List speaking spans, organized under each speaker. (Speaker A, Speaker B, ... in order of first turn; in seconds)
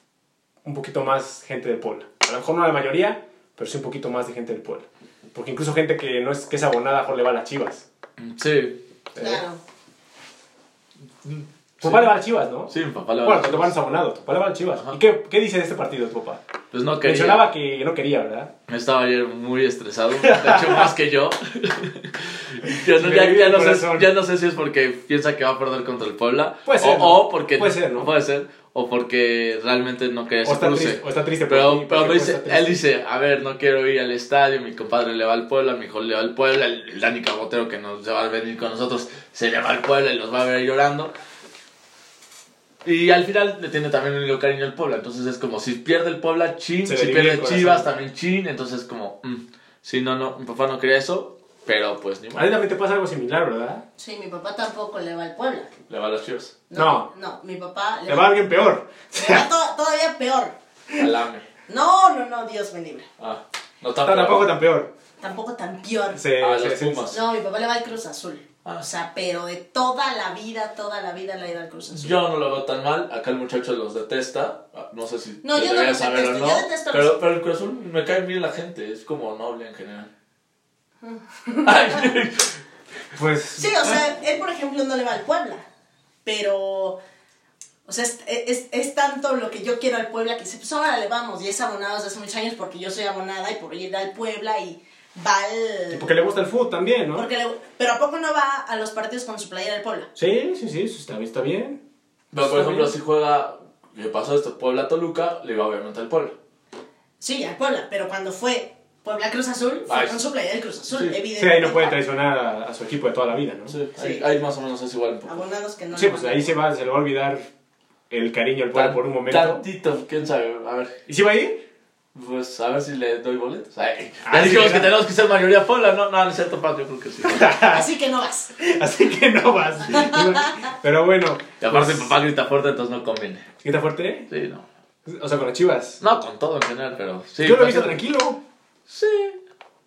Speaker A: 0.6-7.9, 9.1-9.4, 11.8-16.4, 17.0-18.5, 20.2-20.9, 22.7-24.1, 26.6-28.1, 30.4-32.8, 46.9-47.9, 52.4-53.9, 56.8-57.1, 58.1-59.5, 64.0-64.9, 66.1-67.0, 83.1-84.0, 95.9-97.3, 100.2-101.8, 102.4-102.9, 111.4-113.8, 115.9-117.5, 118.1-119.6, 121.1-121.6, 124.2-124.9, 127.2-127.9, 128.6-132.2, 133.6-134.3, 135.1-136.0, 137.4-138.4
Speaker B: 8.2-8.8, 11.2-12.1, 12.7-13.8, 16.7-17.5, 18.7-41.1, 42.8-52.5, 55.9-56.6, 61.0-61.5, 63.2-64.5, 66.4-67.2, 72.0-80.1, 81.6-82.6, 102.3-106.4, 109.9-110.2, 110.9-111.2, 113.7-115.4, 118.7-121.0, 122.2-127.5, 131.6-133.5, 134.3-134.7, 136.0-138.0, 138.9-139.4
Speaker C: 9.2-9.6, 54.0-55.7, 56.7-58.4, 59.1-60.6, 61.7-63.1, 65.2-66.2, 67.1-72.2, 75.4-77.2, 81.0-82.1, 83.6-85.7, 86.2-87.0, 87.9-96.1, 97.1-100.1, 107.2-112.0, 114.0-114.2, 115.3-116.5, 127.7-128.6, 129.9-130.7